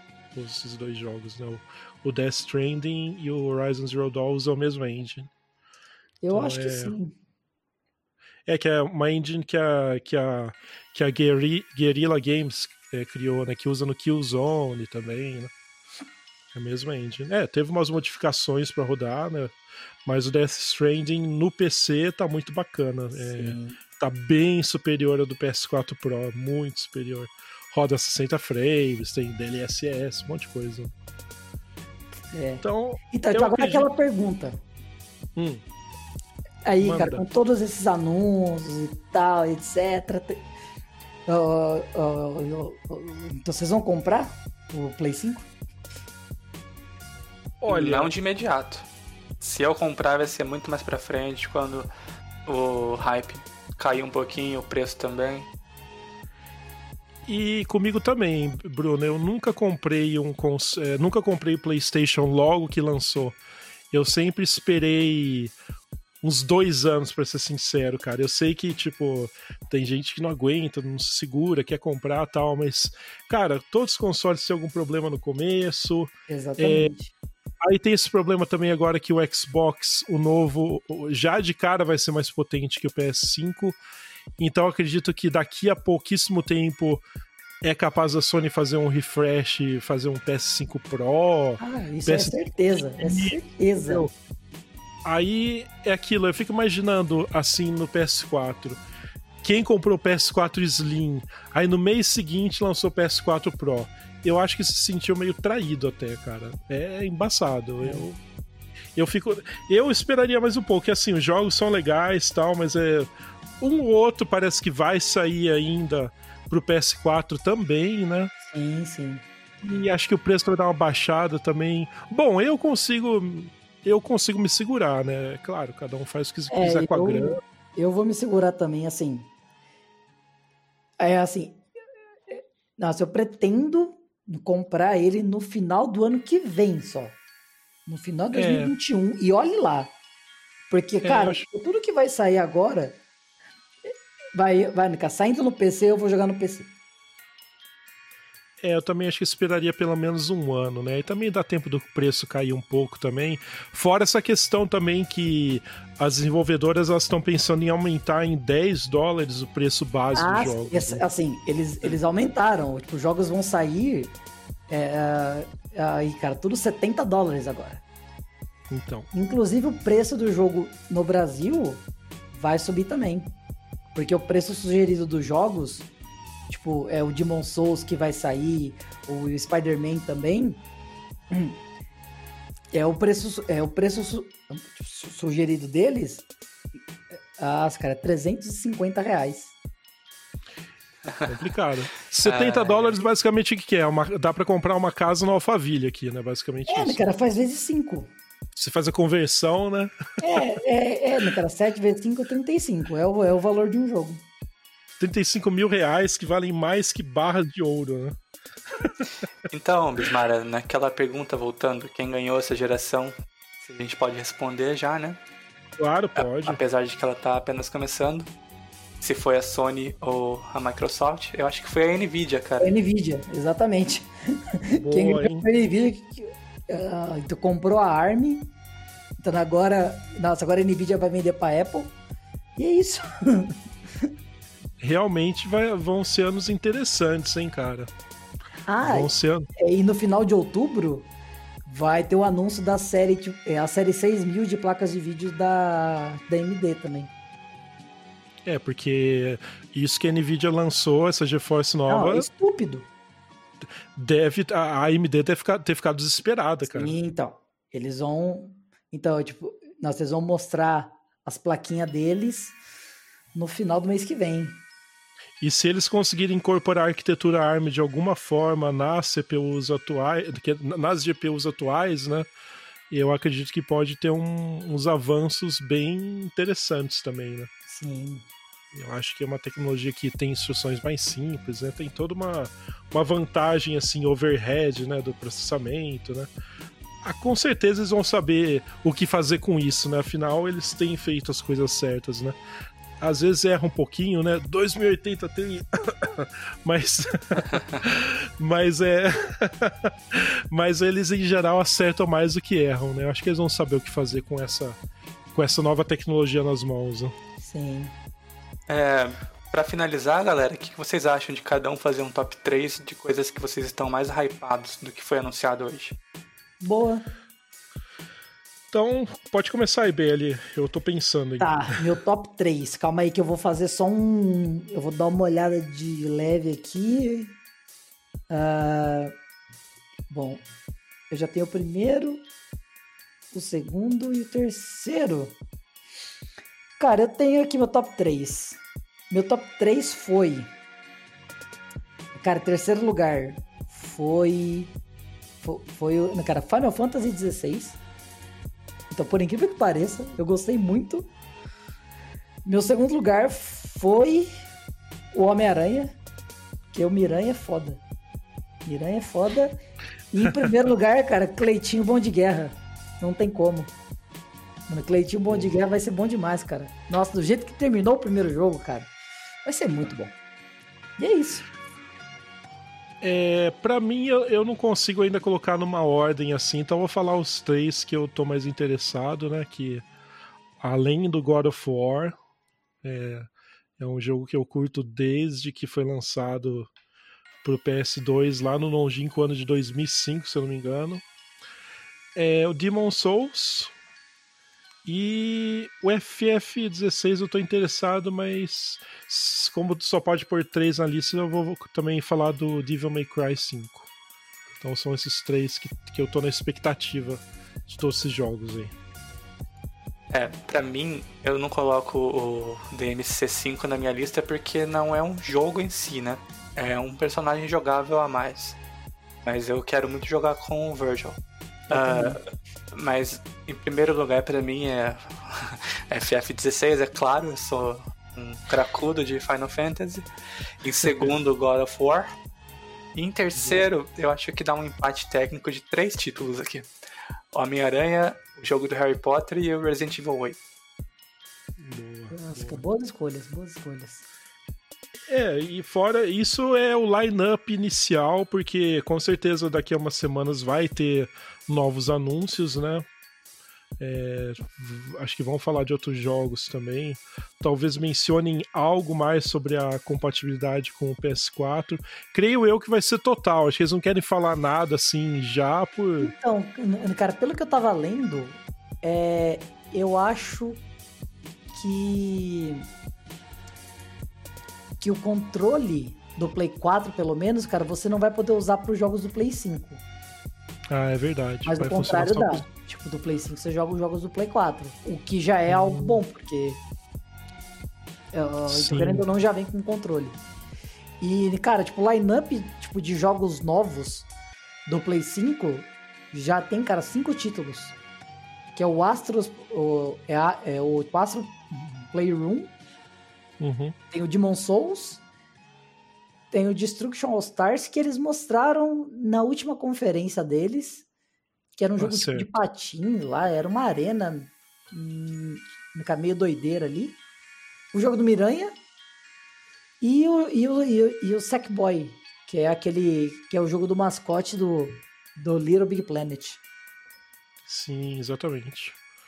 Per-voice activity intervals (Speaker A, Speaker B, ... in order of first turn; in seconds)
Speaker A: 0.3-5.3, 6.3-7.0, 8.4-15.5, 16.5-30.9, 32.6-33.9, 35.4-35.6, 36.8-37.2, 47.6-48.1, 57.2-63.4, 63.9-65.5, 66.2-76.9, 77.6-83.8, 84.4-87.0, 87.6-94.1, 95.0-98.8, 99.4-108.2, 109.0-113.1, 113.6-118.3, 119.6-127.4, 138.3-138.7, 141.0-141.4, 148.6-161.0, 168.7-169.1, 191.2-197.0, 198.6-200.4, 205.0-208.2, 215.8-216.6, 224.8-225.5, 234.8-237.9, 238.8-239.5, 248.4-252.2, 253.9-256.9, 265.4-272.3, 272.9-277.5, 278.7-286.3, 287.0-292.4, 293.0-304.8, 305.3-307.1, 318.7-321.8, 365.3-365.6, 373.0-379.9, 380.6-382.1, 382.8-386.7, 387.4-391.0, 392.1-393.7, 394.8-403.9, 404.6-408.7, 441.6-442.6, 445.1-452.9, 453.8-466.1, 480.7-482.4, 485.5-486.0, 488.5-489.1, 503.4-503.8, 511.8-512.3, 527.5-528.8
Speaker B: 6.2-7.1, 23.2-23.8, 32.3-34.6, 36.6-40.4, 41.3-45.5, 76.3-77.1, 91.6-94.1, 118.4-119.2, 126.5-129.3, 131.0-131.6, 132.3-137.2, 137.8-139.9, 140.7-143.0, 144.3-146.7, 160.1-164.1, 164.7-167.8, 169.1-173.3, 173.9-175.9, 176.5-180.6, 181.3-181.6, 182.7-186.2, 187.3-189.5, 196.7-198.1, 200.2-204.2, 222.6-224.1, 224.6-228.5, 229.2-231.9, 232.6-234.1, 238.7-241.1, 241.7-247.1, 251.9-252.9, 256.7-262.6, 263.3-264.6, 277.7-278.2, 307.4-307.9, 316.6-317.0, 321.4-327.4, 328.3-329.1, 330.1-330.4, 331.1-332.3, 333.3-335.4, 336.8-340.5, 342.2-344.7, 345.4-347.8, 348.9-351.1, 352.4-354.4, 355.1-355.9, 356.7-357.8, 358.6-359.6, 360.1-363.7, 364.7-368.9, 369.4-370.1, 371.0-371.5, 421.7-422.2, 433.4-433.6, 442.1-444.0, 466.0-470.6, 471.5-472.7, 474.8-479.8, 481.4-486.6, 488.1-490.2, 491.0-494.1, 494.6-497.8, 498.5-502.5, 503.9-505.0, 506.3-510.8, 511.6-517.0, 517.7-518.5, 519.8-526.4
Speaker C: 47.7-48.8, 49.4-51.9, 52.5-55.5, 192.2-193.0, 209.5-215.2, 216.2-218.3, 219.0-222.7, 308.7-315.9, 410.1-418.6, 419.2-421.2, 421.7-422.2, 422.7-430.1, 430.6-432.1, 432.9-436.7, 437.3-440.4